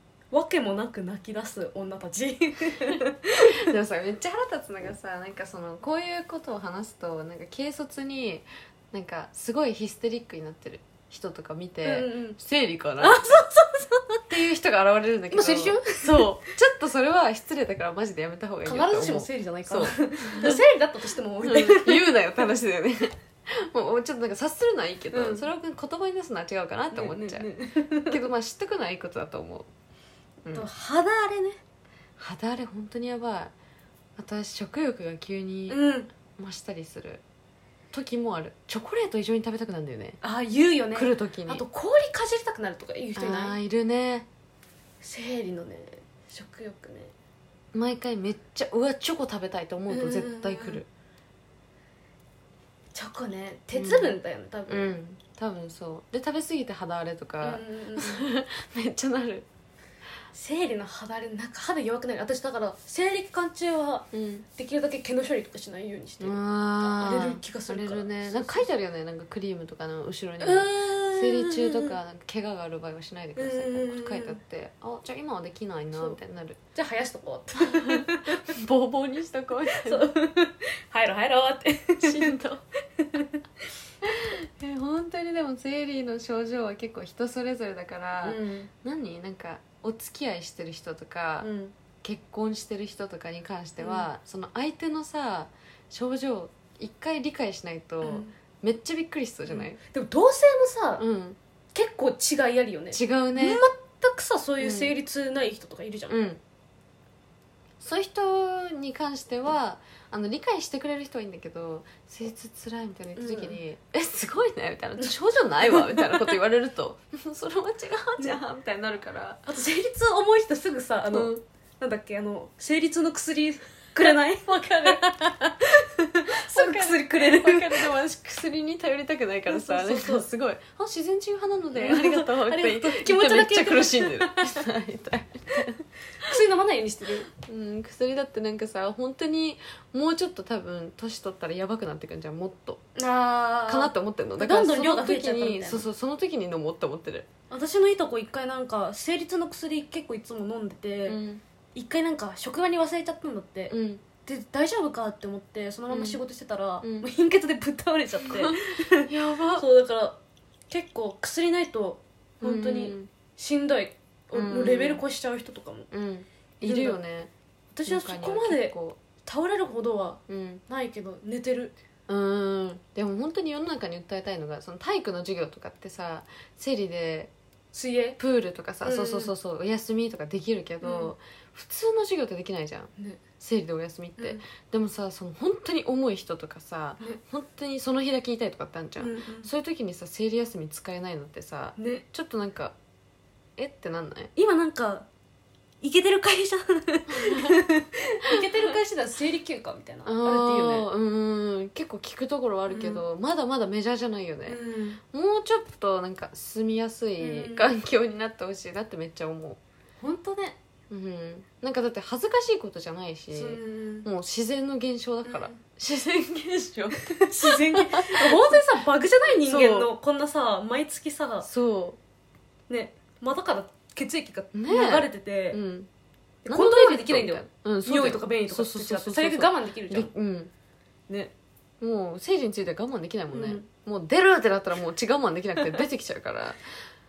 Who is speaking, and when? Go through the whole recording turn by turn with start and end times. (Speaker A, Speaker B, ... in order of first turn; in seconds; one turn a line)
Speaker A: 0.3-3.7
Speaker B: 3.5-13.4
Speaker A: 11.8-12.4
Speaker A: 13.0-14.2
Speaker B: 14.3-20.6
Speaker A: 15.3-16.3
Speaker A: 18.6-22.2
Speaker B: 21.4-27.5
Speaker A: 25.1-25.5
Speaker A: 26.9-28.2
Speaker B: 28.1-29.7
Speaker A: 30.5-31.6
Speaker B: 32.2-33.5
Speaker B: 34.2-35.8
Speaker A: 35.7-36.1
Speaker B: 36.4-37.2
Speaker B: 37.9-40.2
Speaker A: 40.2-43.6
Speaker B: 40.9-41.6
Speaker B: 43.2-44.3
Speaker A: 45.0-47.1
Speaker B: 47.7-50.9
Speaker A: 49.9-50.8
Speaker A: 52.9-54.9
Speaker B: 53.7-54.2
Speaker B: 54.7-59.5
Speaker A: 57.4-58.2
Speaker A: 60.3-68.7
Speaker B: 64.1-64.4
Speaker B: 66.2-76.6
Speaker A: 70.4-72.0
Speaker A: 73.3-74.4
Speaker A: 76.7-78.5
Speaker B: 77.6-80.1
Speaker A: 79.7-82.4
Speaker B: 82.0-82.6
Speaker A: 83.0-83.4
Speaker B: 84.0-91.5
Speaker A: 88.2-88.7
Speaker A: 91.4-91.7
Speaker B: 92.0-99.8
Speaker A: 93.8-94.1
Speaker A: 98.0-98.3
Speaker A: 99.5-101.0
Speaker B: 101.0-101.4
Speaker A: 101.7-106.2
Speaker B: 102.9-103.6
Speaker B: 104.6-104.9
Speaker B: 106.1-106.4
Speaker B: 107.8-119.4
Speaker A: 113.2-113.6
Speaker A: 115.0-116.3
Speaker A: 119.5-127.9
Speaker B: 121.1-121.4
Speaker B: 124.1-125.0
Speaker B: 126.4-135.8
Speaker A: 129.5-130.3
Speaker A: 131.7-134.6
Speaker A: 136.2-137.3
Speaker B: 137.3-142.8
Speaker A: 142.9-145.8
Speaker B: 143.7-147.3
Speaker A: 147.5-151.2
Speaker B: 151.1-151.4
Speaker A: 151.7-153.7
Speaker B: 153.7-154.0
Speaker A: 154.2-160.2
Speaker B: 155.9-156.2
Speaker B: 156.8-157.1
Speaker B: 158.2-159.6
Speaker A: 160.7-165.9
Speaker B: 162.4-163.1
Speaker B: 164.3-165.0
Speaker B: 165.9-167.3
Speaker A: 166.6-167.0
Speaker A: 167.7-171.7
Speaker B: 167.9-169.0
Speaker B: 170.3-170.6
Speaker B: 172.1-177.3
Speaker A: 177.7-178.2
Speaker B: 178.2-192.8
Speaker A: 178.8-179.3
Speaker A: 180.8-181.1
Speaker A: 189.0-189.5
Speaker A: 191.8-192.0
Speaker B: 193.6-194.3
Speaker A: 194.3-195.1
Speaker A: 195.8-200.9
Speaker B: 197.1-197.6
Speaker B: 200.1-204.6
Speaker A: 202.7-203.0
Speaker A: 204.5-205.0
Speaker B: 205.1-209.6
Speaker A: 207.2-207.7
Speaker A: 210.0-210.6
Speaker B: 210.9-218.6
Speaker A: 213.3-214.1
Speaker A: 215.2-215.6
Speaker A: 216.9-221.5
Speaker B: 219.4-219.9
Speaker B: 221.4-222.0
Speaker A: 222.7-225.6
Speaker B: 224.5-225.9
Speaker A: 226.4-230.1
Speaker B: 226.5-230.5
Speaker B: 231.8-236.6
Speaker A: 233.3-233.7